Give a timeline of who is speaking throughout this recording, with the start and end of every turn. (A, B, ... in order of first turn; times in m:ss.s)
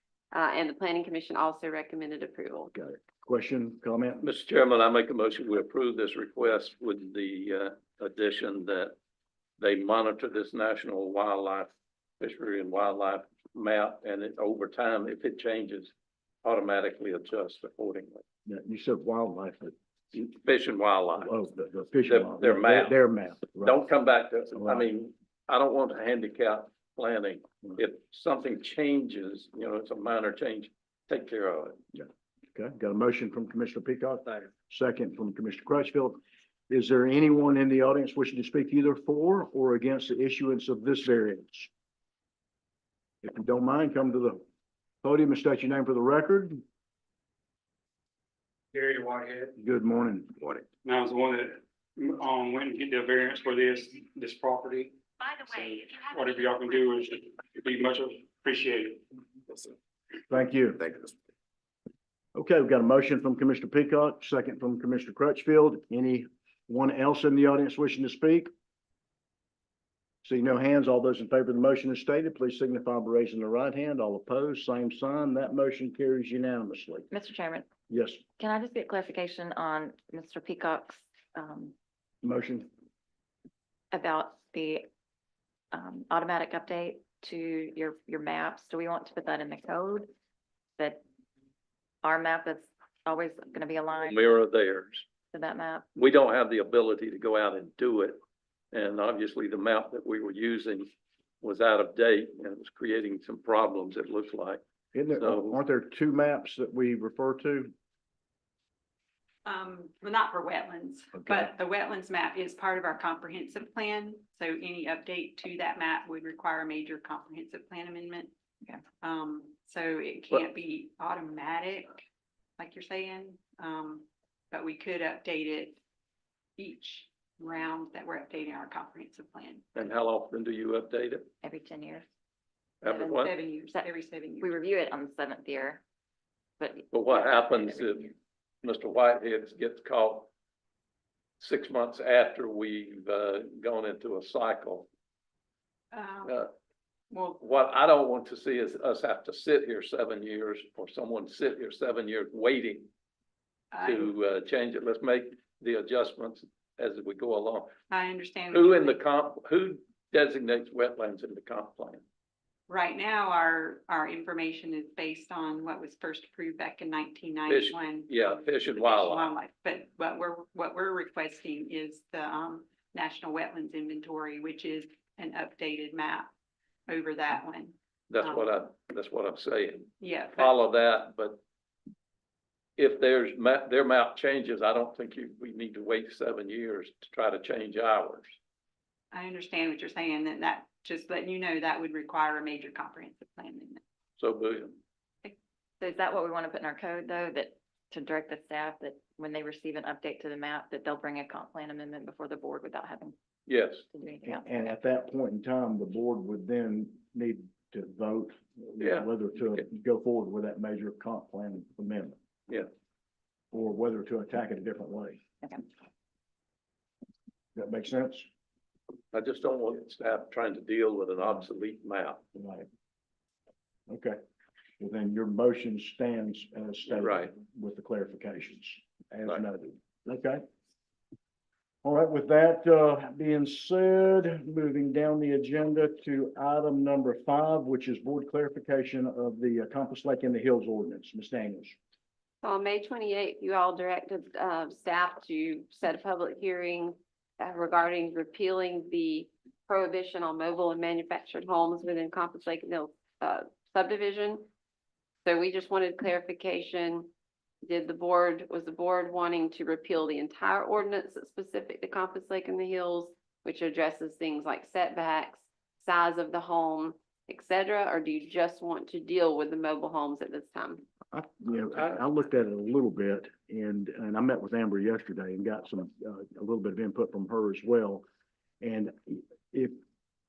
0:00.3-0:02.7 A
0:02.7-0:04.3 B
0:04.2-0:09.0 C
0:09.6-0:15.9 C
0:16.4-0:18.2 C
0:18.5-0:19.7 B
0:20.1-0:21.3 C
0:21.2-0:23.9 B
0:22.0-0:23.0 C
0:23.6-0:31.8 C
0:24.5-0:24.9 B
0:31.9-0:36.2 B
0:36.7-0:41.7 B
0:43.2-0:44.4 B
0:45.0-0:46.6 B
0:48.7-0:49.5 D
0:49.6-0:50.6 B
0:50.8-0:59.7 D
1:00.3-1:00.9 B
1:02.4-1:08.5 B
1:10.2-1:17.1 B
1:17.1-1:17.7 E
1:17.9-1:18.2 B
1:18.4-1:21.7 E
1:22.2-1:22.7 B
1:23.9-1:24.9 E
1:25.7-1:30.1 E
1:32.0-1:34.4 E
1:34.1-1:35.1 C
1:35.3-1:35.8 E
1:36.0-1:38.2 C
1:38.7-1:40.9 C
1:41.4-1:44.6 C
1:44.9-1:47.7 B
1:45.2-1:45.6 C
1:49.4-1:58.3 F
1:59.0-2:02.0 F
2:02.6-2:05.8 F
2:06.6-2:09.7 F
2:09.8-2:11.3 C
2:11.4-2:12.1 E
2:12.8-2:13.3 C
2:12.9-2:14.5 F
2:14.4-2:15.8 E
2:16.6-2:18.1 E
2:16.9-2:18.1 C
2:18.6-2:20.3 C
2:21.4-2:24.9 C
2:25.9-2:26.3 F
2:26.2-2:26.5 C
2:27.1-2:27.4 F
2:27.4-2:32.9 C
2:33.7-2:34.1 F
2:33.8-2:37.8 C
2:37.9-2:38.9 F
2:38.5-2:42.0 C
2:42.7-2:56.3 F
2:47.5-2:49.3 C
2:56.9-2:58.5 F
2:58.1-3:01.4 C
3:00.0-3:00.5 F
3:02.8-3:08.4 C
3:09.1-3:13.8 F
3:14.2-3:14.8 C
3:15.8-3:23.2 E
3:23.5-3:23.8 C
3:23.9-3:24.7 E
3:24.2-3:32.2 B
3:28.8-3:29.1 C
3:33.5-3:35.2 B
3:37.6-3:38.3 B
3:39.1-3:42.2 C
3:42.4-3:42.7 B
3:43.9-3:44.2 B
3:44.8-3:50.4 B
3:47.0-3:47.3 C
3:51.8-4:01.8 B
4:02.4-4:14.5 A
4:15.2-4:17.1 A
4:17.6-4:30.8 A
4:31.1-4:38.0 B
4:38.6-4:39.7 B